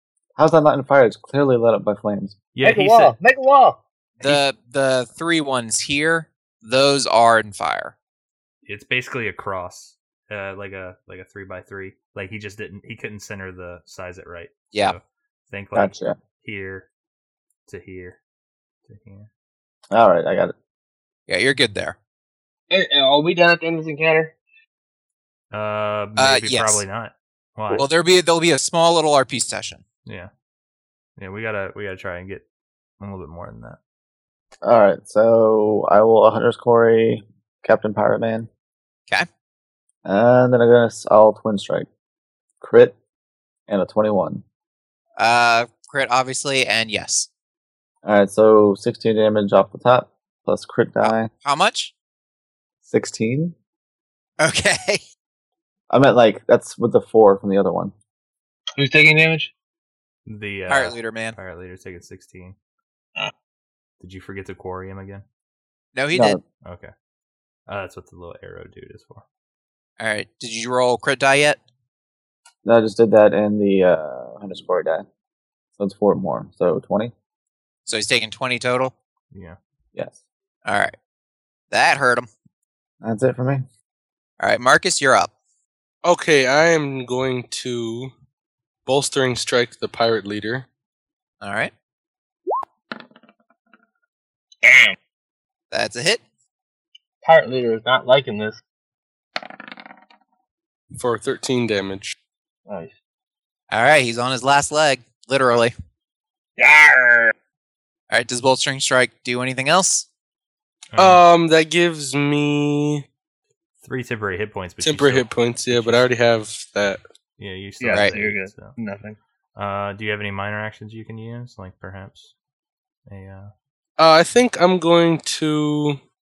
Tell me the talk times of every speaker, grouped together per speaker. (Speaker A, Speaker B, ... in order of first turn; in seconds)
Speaker A: 0.3-2.3, 15.7-16.1, 19.9-20.5, 34.6-38.5, 40.0-41.9, 42.6-42.9, 43.7-44.4, 48.0-51.3, 52.8-53.5, 55.9-57.9, 66.1-66.4, 72.6-75.0, 75.8-77.1, 83.0-83.7
Speaker B: 2.5-3.1, 8.6-16.9, 17.7-18.2, 18.9-19.3, 25.5-27.9, 30.1-30.3, 31.2-32.4, 33.0-33.8, 60.3-62.5, 64.0-65.2, 66.6-66.9, 67.7-69.2, 79.3-79.6, 110.9-111.2, 113.8-116.1, 117.4-118.8, 119.5-122.3, 123.0-123.5
Speaker C: 2.6-4.4, 22.7-24.3, 58.8-59.5, 94.6-95.0, 97.2-98.6, 102.7-102.9, 106.6-107.3, 117.8-119.2
Speaker D: 4.2-7.9, 21.3-21.9, 26.2-26.8, 27.7-29.8, 45.2-47.3, 51.0-51.9, 54.4-55.0, 60.7-61.4, 65.9-66.4, 70.0-71.6, 77.8-78.9, 80.6-80.9, 81.7-82.3, 84.4-85.3, 91.4-91.7, 95.7-96.2, 103.7-105.7, 108.1-110.0
Speaker E: 86.0-88.1, 88.8-90.7, 100.9-102.1, 111.0-113.0, 114.8-117.0, 124.0-126.0